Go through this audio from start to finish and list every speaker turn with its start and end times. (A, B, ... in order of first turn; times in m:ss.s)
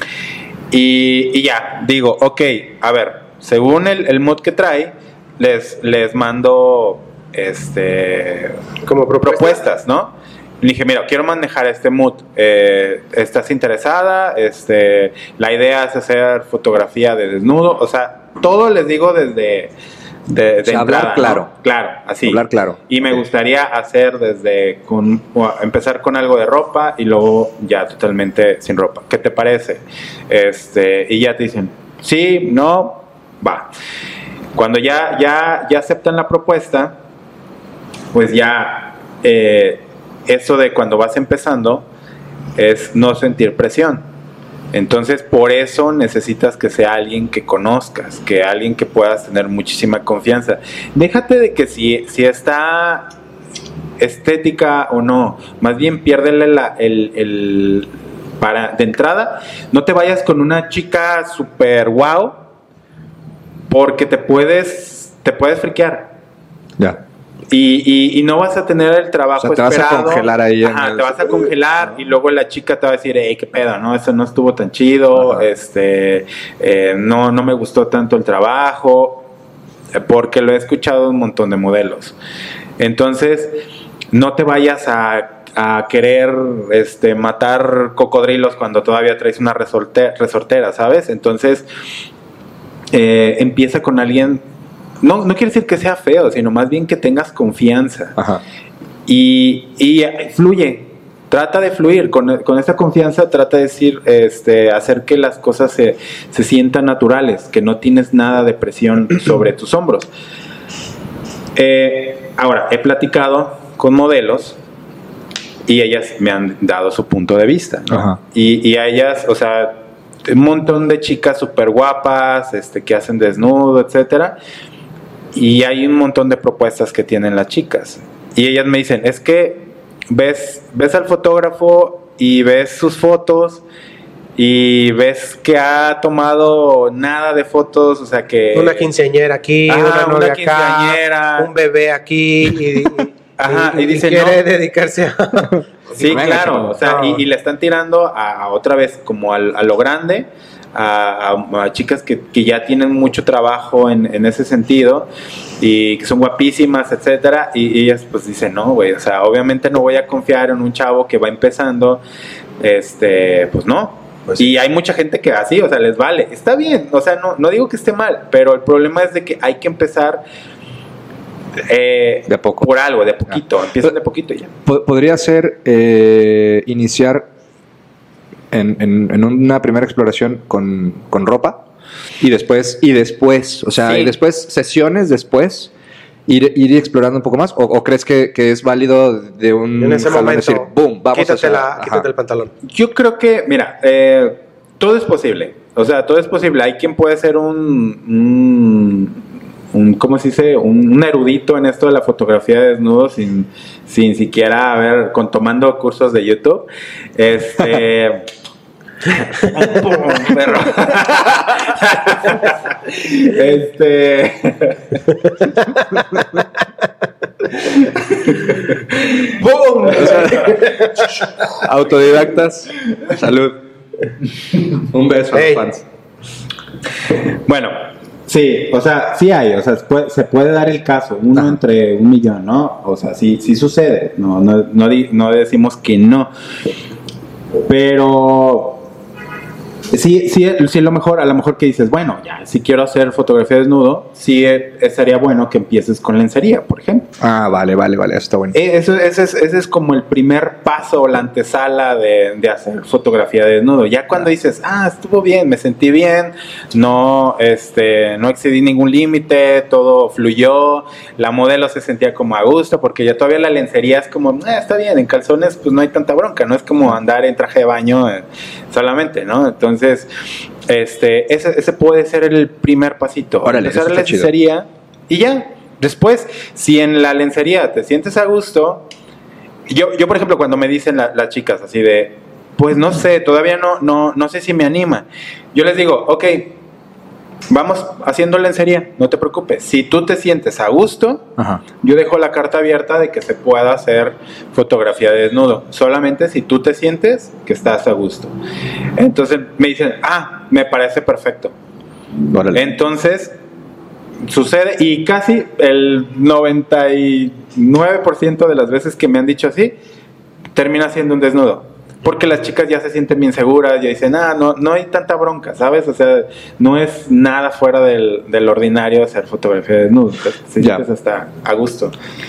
0:00.7-0:08.6 A
0:08.8-0:09.6 B
0:09.2-0:19.7 A
0:20.3-0:33.7 A
0:20.6-0:21.5 C
0:22.2-0:23.2 C
0:34.6-0:37.0 A
0:38.1-0:41.9 A
0:42.6-0:44.0 A
0:44.7-0:53.1 A
0:54.0-1:02.4 A
1:03.7-1:06.1 A
1:07.5-1:19.3 A
1:09.4-1:11.5 C
1:15.1-1:15.5 C
1:19.9-1:22.2 A
1:22.8-1:23.6 A
1:24.1-1:31.7 A
1:32.9-1:34.4 A
1:35.0-1:38.2 A
1:38.2-1:38.4 C
1:39.1-1:50.1 A
1:51.6-1:54.6 A
1:55.7-2:04.4 A
1:57.9-1:58.2 C
2:05.3-2:13.6 A
2:14.4-2:18.9 A
2:18.5-2:25.6 B
2:19.7-2:21.5 A
2:23.4-2:24.4 A
2:26.0-2:35.1 A
2:26.0-2:26.7 C
2:26.8-2:27.2 B
2:35.6-2:42.0 A
2:42.6-2:50.2 A
2:51.7-2:54.5 A
2:52.3-2:52.7 C
2:54.6-2:57.3 C
2:58.5-3:01.6 C
3:02.2-3:05.7 C
3:03.9-3:04.1 A
3:06.3-3:12.1 C
3:09.8-3:12.5 B
3:12.6-3:19.2 A
3:19.7-3:28.3 A
3:29.1-3:35.2 A
3:37.8-3:38.7 A
3:39.4-3:41.1 B
3:39.8-3:40.7 C
3:41.5-3:43.6 C
3:44.7-3:45.8 C
3:45.3-3:45.7 B
3:47.4-3:56.3 A
3:57.7-3:58.9 A
3:59.9-4:07.1 A
4:07.2-4:08.6 C
4:08.5-4:30.1 A
4:30.7-4:38.9 A
4:33.4-4:34.3 C
4:39.7-4:46.6 A
4:47.5-4:51.3 A
4:51.4-4:51.6 C
4:51.8-4:58.3 A
4:59.0-5:01.5 A
5:02.3-5:02.6 C
5:02.5-5:03.4 A
5:04.2-5:09.8 A
5:10.6-5:22.0 A